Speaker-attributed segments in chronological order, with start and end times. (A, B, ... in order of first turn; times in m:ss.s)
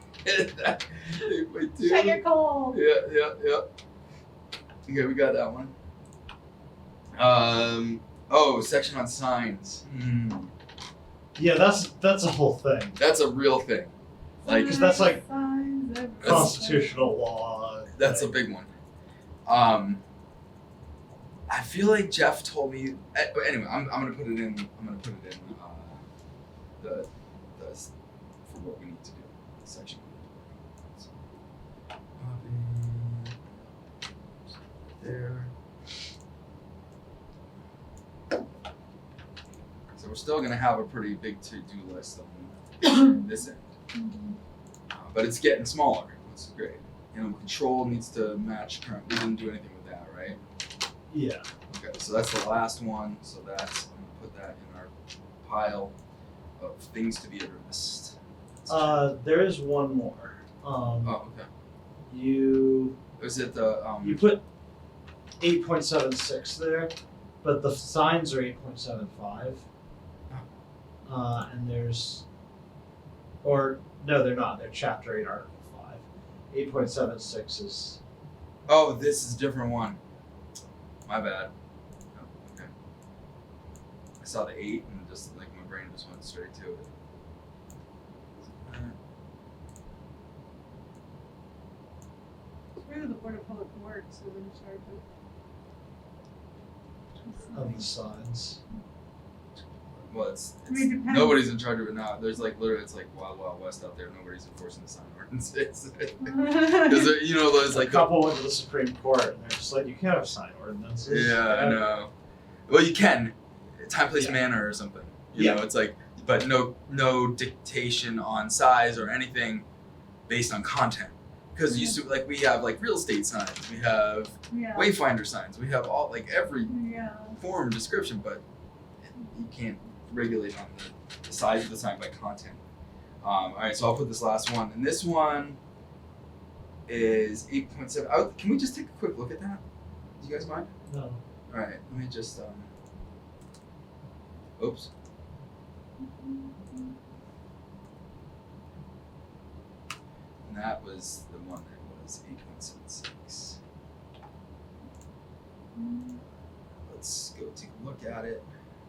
0:00.2-0:03.6 A
0:01.8-0:02.8 B
0:04.9-0:05.7 A
0:07.2-0:10.5 A
0:11.3-0:13.0 C
0:13.0-0:13.9 A
0:14.4-0:17.1 B
0:14.4-0:14.8 A
0:14.5-0:15.2 C
0:16.2-0:16.5 A
0:16.2-0:18.4 C
0:17.9-0:18.7 A
0:19.4-0:20.0 A
0:21.5-0:26.0 A
0:26.8-0:27.9 A
0:28.5-0:31.1 A
0:32.2-0:33.6 A
0:35.0-0:35.5 A
0:39.9-0:43.7 A
0:43.9-0:44.4 B
0:44.9-0:50.4 A
0:51.1-0:51.5 C
0:51.7-0:54.9 A
0:55.4-0:55.9 A
0:56.6-0:59.0 A
0:58.7-1:01.2 C
1:01.0-1:01.5 A
1:02.1-1:03.0 C
1:03.2-1:04.3 A
1:04.0-1:04.4 C
1:05.4-1:09.6 C
1:11.0-1:12.2 C
1:13.4-1:18.0 C
1:18.7-1:20.0 A
1:21.0-1:21.5 A
1:22.1-1:22.7 A
1:24.2-1:26.9 A
1:28.6-1:29.0 A
1:32.8-1:35.0 B
1:37.2-1:37.9 B
1:37.5-1:38.6 C
1:40.0-1:48.2 A
1:40.7-1:41.5 B
1:46.2-1:47.2 B
1:47.6-1:51.9 C
1:51.1-1:52.1 A
1:52.7-1:59.6 A
1:55.3-1:55.6 C
2:00.3-2:06.8 A
2:01.6-2:02.0 B
2:04.5-2:04.9 B
2:06.7-2:07.4 B
2:07.4-2:08.4 A
2:09.3-2:12.6 A
2:13.2-2:15.6 A
2:16.9-2:19.6 A
2:20.2-2:20.7 A
2:20.8-2:21.2 C
2:21.5-2:22.7 A
2:24.6-2:24.9 A
2:26.0-2:26.9 B
2:30.4-2:33.6 A
2:35.8-2:36.2 B
2:36.8-2:38.5 A